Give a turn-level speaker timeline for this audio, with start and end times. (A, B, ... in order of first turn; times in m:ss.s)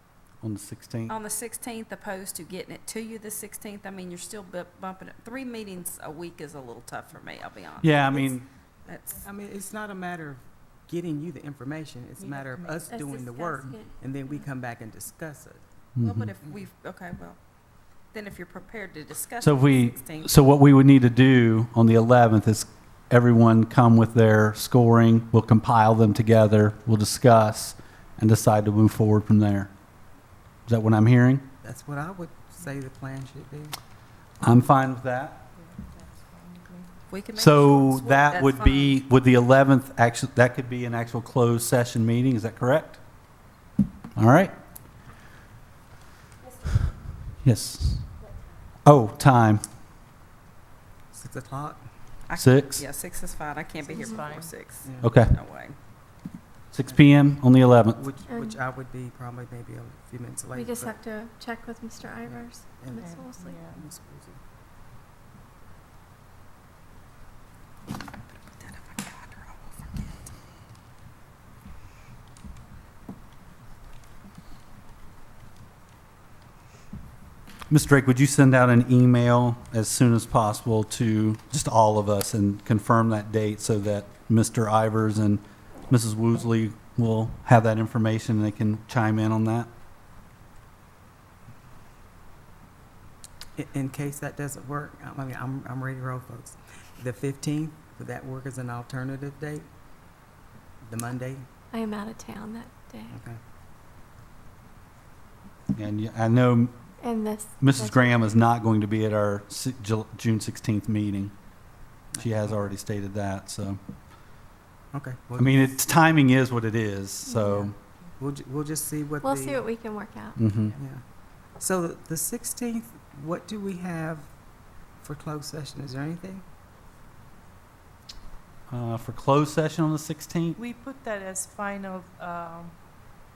0:00.4-0:01.2 A
0:01.1-0:09.2 B
0:07.8-0:08.5 A
0:09.1-0:15.6 C
0:12.2-0:12.9 D
0:12.9-0:14.4 E
0:16.0-0:16.3 A
0:16.0-0:20.3 B
0:19.4-0:29.7 A
0:30.7-0:31.5 A
0:31.6-0:33.8 C
0:34.4-0:35.4 A
0:35.6-0:36.9 D
0:37.1-0:39.0 B
0:37.3-0:43.0 A
0:44.2-0:44.5 A
0:47.4-0:48.2 A
0:48.8-0:49.6 A
0:51.1-0:51.8 C
0:52.3-0:55.8 B
0:52.4-0:52.8 A
0:53.8-0:54.6 D
0:54.8-0:55.1 C
0:55.0-0:55.3 A
0:56.7-0:58.0 A
0:58.0-1:01.0 C
0:58.3-0:58.6 E
1:00.5-1:03.6 E
1:02.3-1:04.4 C
1:03.0-1:03.8 D
1:08.7-1:09.6 B
1:17.7-1:29.7 A
1:33.6-1:39.7 C
1:40.8-1:41.5 C
1:41.7-1:43.2 E
1:43.1-1:43.4 C
1:45.7-1:46.8 A
1:47.0-1:48.1 E
1:47.6-1:51.6 A
1:52.1-1:52.8 C
1:52.2-1:53.8 A
1:54.9-1:55.7 C
1:55.4-1:57.8 A
1:57.3-1:57.7 E
1:58.2-1:59.6 C
1:59.2-2:00.4 E
2:00.4-2:00.8 A
2:00.8-2:04.3 C
2:05.0-2:06.4 C
2:08.7-2:10.6 A
2:10.6-2:12.8 D